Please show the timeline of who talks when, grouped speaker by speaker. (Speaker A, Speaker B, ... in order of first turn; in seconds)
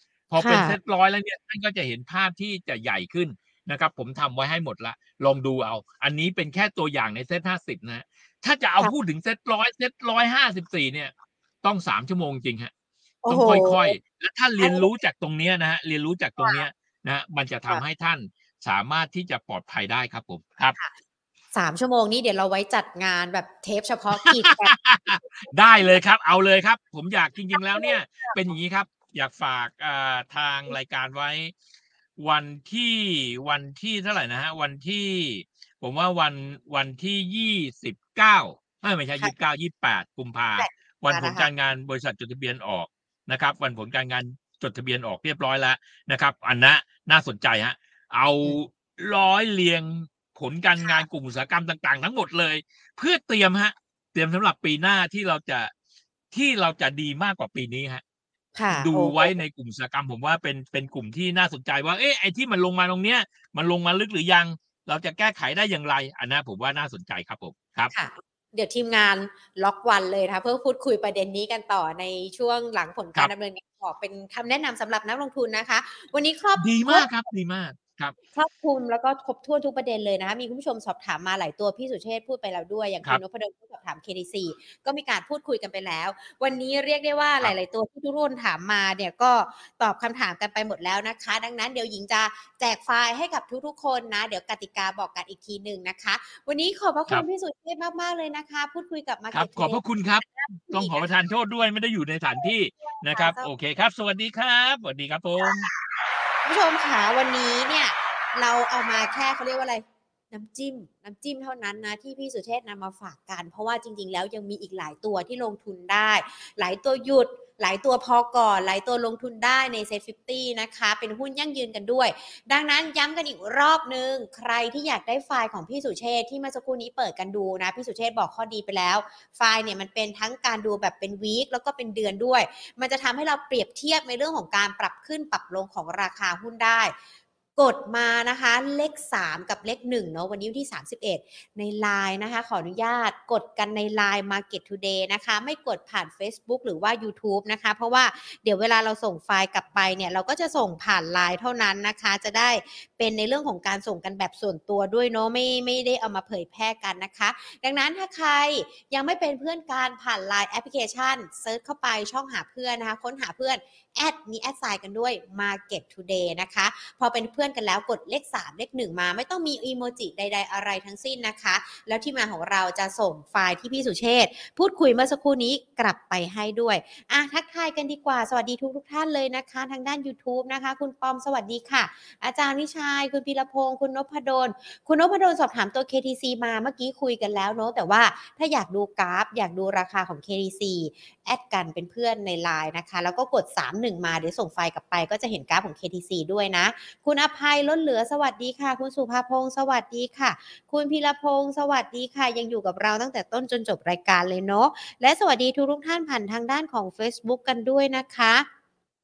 Speaker A: 0.3-12.7, 13.3-20.8, 24.1-31.5, 32.2-55.7, 56.3-58.0, 58.7-67.9, 76.6-78.1, 99.3-105.7
Speaker B: 0.4-0.8, 13.2-13.9, 14.6-14.9, 16.4-16.6, 21.5-25.3, 27.5-28.4, 40.6-41.5, 58.5-59.3, 67.9-77.1, 78.3-101.0, 102.9-103.5, 106.4-136.9, 137.6-208.4